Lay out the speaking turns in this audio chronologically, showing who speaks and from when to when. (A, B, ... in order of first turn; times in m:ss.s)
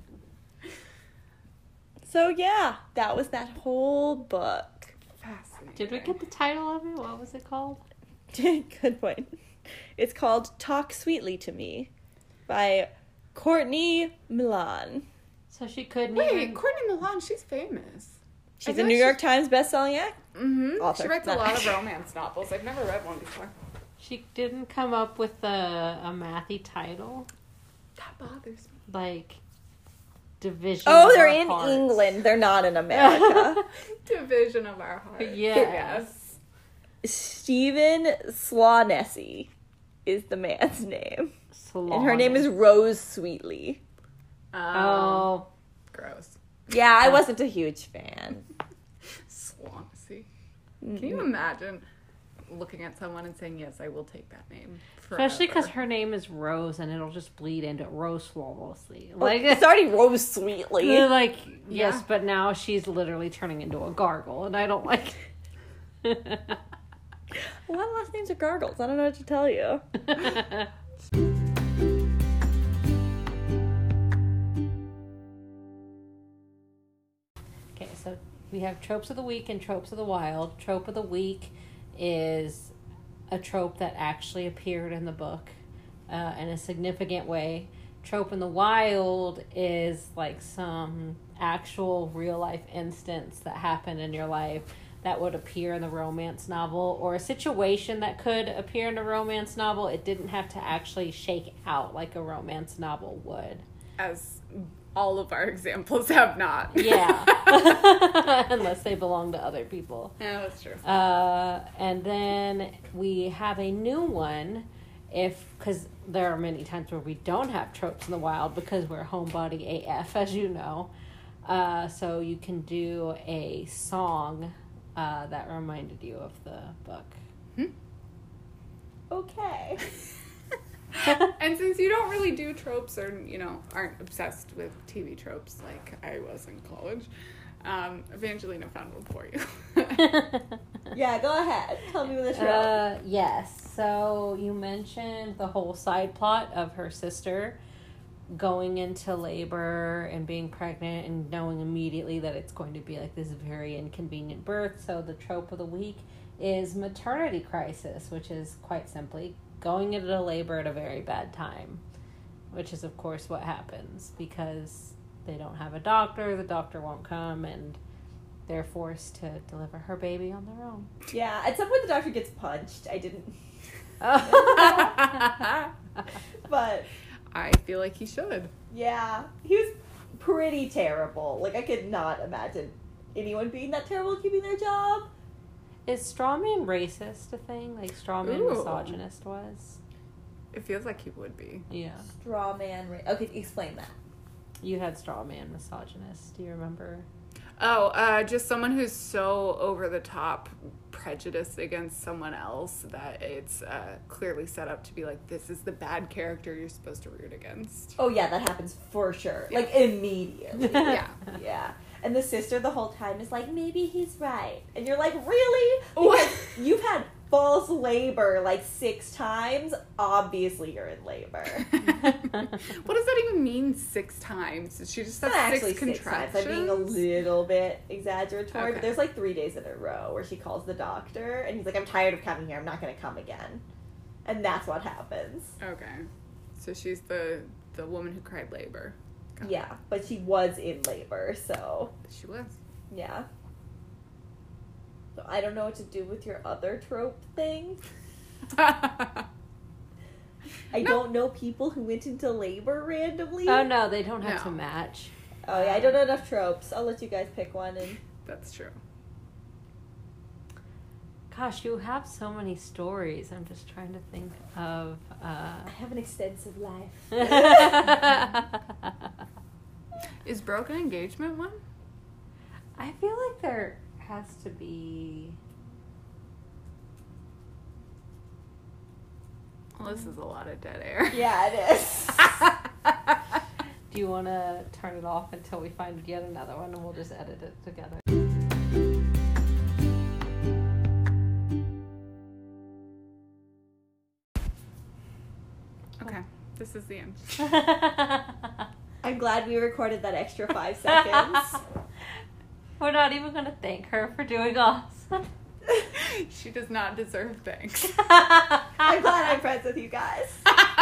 0:02.0-0:04.9 A
0:05.2-0:06.1 B
0:05.8-0:07.8 C
0:08.3-0:09.3 A
0:10.0-0:11.9 A
0:12.5-0:15.0 A
0:15.5-0:16.6 C
0:16.1-0:19.2 B
0:18.6-0:20.2 A
0:20.3-0:23.5 B
0:20.8-0:21.7 A
0:24.0-0:27.3 C
0:28.0-0:28.8 B
0:28.9-0:29.4 C
0:30.4-0:32.1 C
0:30.8-0:33.6 A
0:32.9-0:33.6 C
0:34.0-0:36.2 B
0:35.2-0:36.2 C
0:37.0-0:39.5 A
0:40.0-0:41.3 A
0:41.5-0:42.5 C
0:41.9-0:43.8 A
0:44.5-0:45.4 B
0:44.7-0:45.5 C
0:45.9-0:46.4 B
0:46.7-0:48.4 A
0:49.3-0:50.3 B
0:50.8-0:51.3 A
0:50.9-0:51.8 B
0:52.5-0:55.7 B
0:55.1-0:59.8 C
0:59.2-1:01.1 A
1:00.8-1:05.3 C
1:01.7-1:02.0 B
1:06.0-1:06.6 C
1:07.6-1:09.8 A
1:10.2-1:10.5 C
1:17.7-1:22.7 C
1:23.3-1:25.5 C
1:26.1-1:43.6 C
1:44.0-1:47.5 B
1:46.7-1:50.1 C
1:50.2-1:50.8 B
1:50.8-2:00.9 C
2:01.4-2:07.2 C
2:09.1-2:09.8 A
2:11.0-2:17.1 B
2:17.6-2:20.2 B
2:20.9-2:22.8 A
2:22.3-2:27.6 C
2:28.3-2:41.8 C
2:42.5-2:47.8 C
2:48.5-2:50.9 C
2:51.1-2:53.4 A
2:54.0-2:55.2 C
2:54.2-2:55.2 A
2:56.4-2:56.9 A
2:57.3-2:58.5 B
2:58.7-3:05.1 A
3:05.8-3:09.8 C
3:08.2-3:09.0 B
3:10.5-3:11.6 B
3:11.7-3:12.0 C
3:12.2-3:13.9 A
3:14.6-3:17.0 C
3:17.6-3:28.0 B
3:28.0-3:41.7 A
3:30.6-3:31.2 B
3:36.0-3:36.5 B
3:41.6-3:47.0 B
3:45.2-3:53.6 A
3:48.5-3:49.0 B
3:54.2-3:55.5 A
3:55.6-3:59.6 B
3:59.4-4:01.9 A
4:02.0-4:02.6 B
4:02.9-4:03.3 A
4:05.1-4:07.8 A
4:08.5-4:09.2 B
4:10.7-4:13.7 A
4:13.4-4:15.9 C
4:14.2-4:14.6 B
4:15.4-4:18.0 A
4:18.2-4:18.8 B
4:21.3-4:25.7 C
4:25.7-4:28.0 A
4:27.2-4:28.4 C
4:30.2-4:31.6 B
4:32.8-4:35.4 C
4:39.8-4:41.3 B
4:41.1-4:42.4 A
4:42.2-4:42.5 B
4:43.9-4:48.0 C
4:56.0-4:57.4 B
4:57.4-4:58.3 C
4:59.0-5:01.6 A
5:00.9-5:01.5 C
5:02.8-5:05.2 C
5:05.9-5:08.0 B
5:07.8-5:08.9 C
5:08.8-5:10.4 A